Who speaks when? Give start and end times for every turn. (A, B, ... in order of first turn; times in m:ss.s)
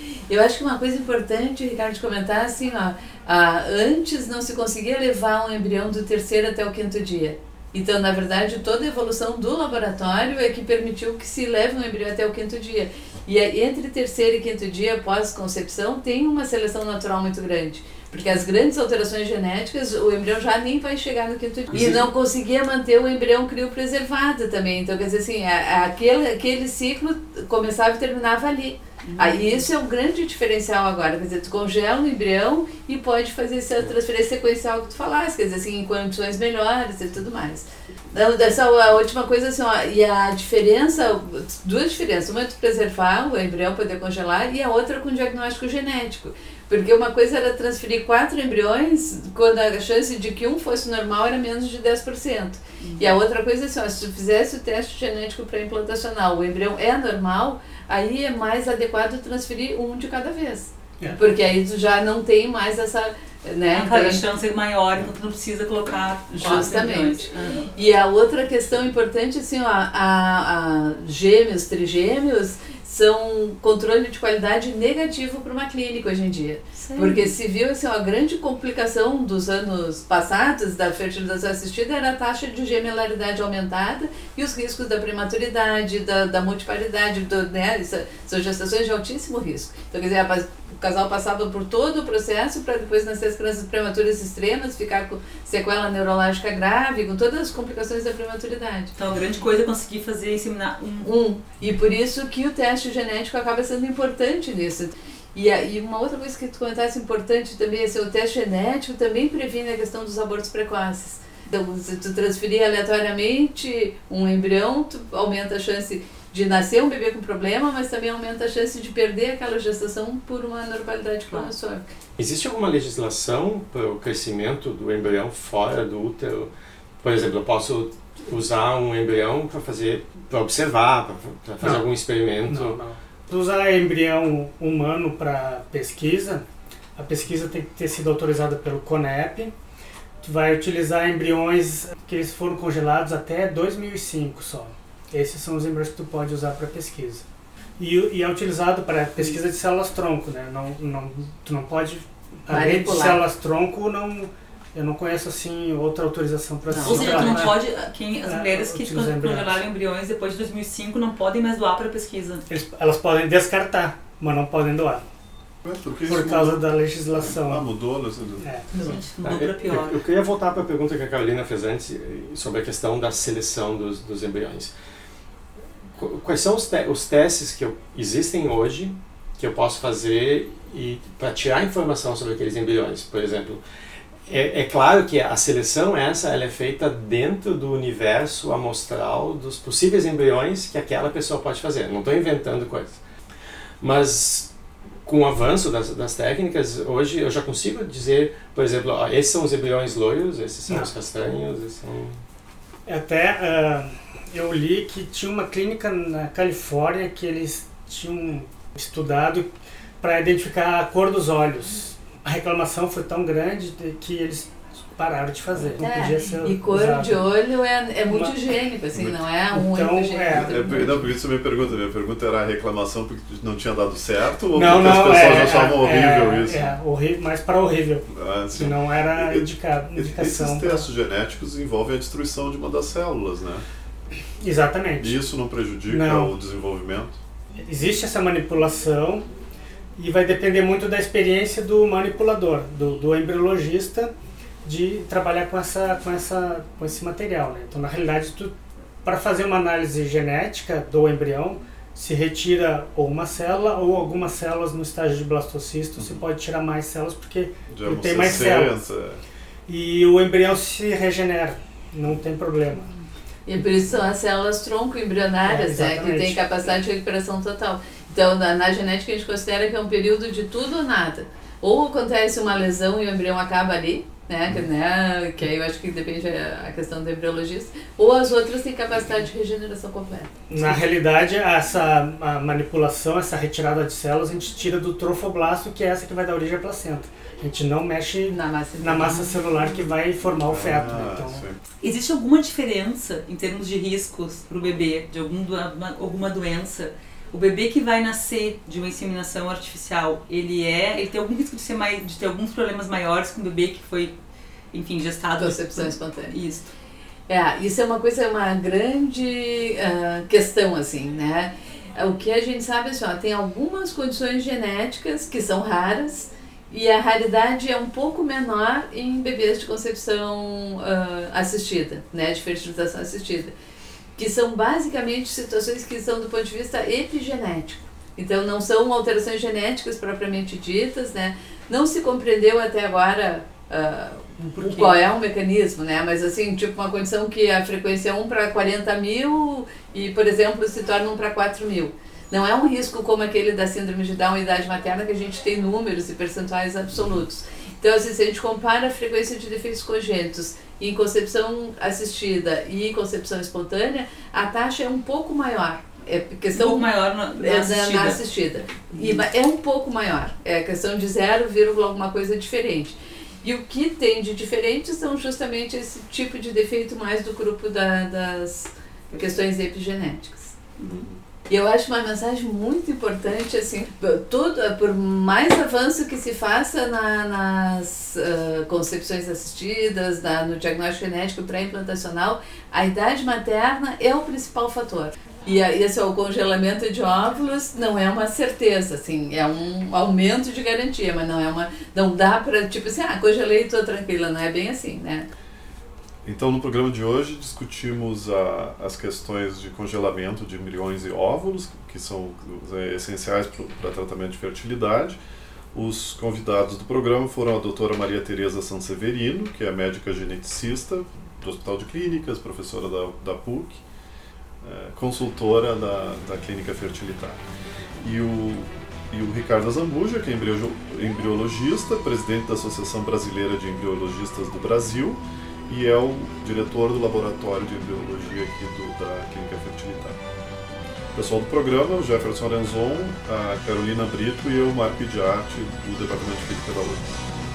0:00.3-1:04.2 A
0:21.7-0:22.1 B
0:21.7-0:22.1 C
0:29.0-0:29.7 B
0:52.8-0:53.2 B
1:03.7-1:07.7 B
1:06.4-1:38.9 A
1:16.8-1:17.4 B
1:39.0-1:41.1 B
1:41.0-2:01.9 A
2:02.2-2:12.8 C
2:12.5-2:16.5 D
2:17.0-2:19.5 D
2:20.2-2:27.2 D
2:27.8-2:37.6 D
2:32.5-2:33.2 A
2:36.7-2:37.5 A
2:36.8-2:42.5 B
2:38.3-2:39.6 D
2:42.5-2:45.0 D
2:45.6-2:48.9 E
2:46.1-2:47.7 D
2:48.4-2:48.7 D
2:48.7-2:50.0 B
2:49.2-2:54.7 C
2:56.0-3:03.6 C
3:04.3-3:13.0 C
3:13.8-3:14.5 C
3:15.0-3:22.2 C
3:22.9-3:29.5 D
3:30.0-3:37.2 D
3:35.6-3:35.8 E
3:35.8-3:41.0 A
3:38.1-3:38.4 D
3:38.9-3:39.2 E
3:39.5-3:41.0 D
3:40.3-3:46.7 E
3:44.6-3:50.9 D
3:48.1-3:53.6 E
3:54.4-3:55.2 D
3:55.0-3:57.2 E
3:55.9-3:56.3 D
3:57.6-3:59.3 D
4:00.0-4:18.8 D
4:17.7-4:19.2 E
4:19.7-4:22.9 D
4:23.5-4:40.6 A
4:25.4-4:26.4 D
4:40.5-4:51.4 D
4:48.3-4:49.3 A
4:50.4-4:51.6 E
4:51.8-5:04.1 B
5:04.7-5:06.7 B
5:05.4-5:06.4 A
5:07.3-5:23.5 A
5:24.2-6:10.6 A
5:34.4-5:35.0 B
5:56.5-5:58.2 B
5:58.9-5:59.3 B
6:10.8-6:11.0 B
6:11.5-6:35.3 A
6:36.2-6:45.2 E
6:45.7-6:53.8 E
6:54.6-6:57.4 E
6:58.0-7:10.2 E
7:11.2-7:17.1 E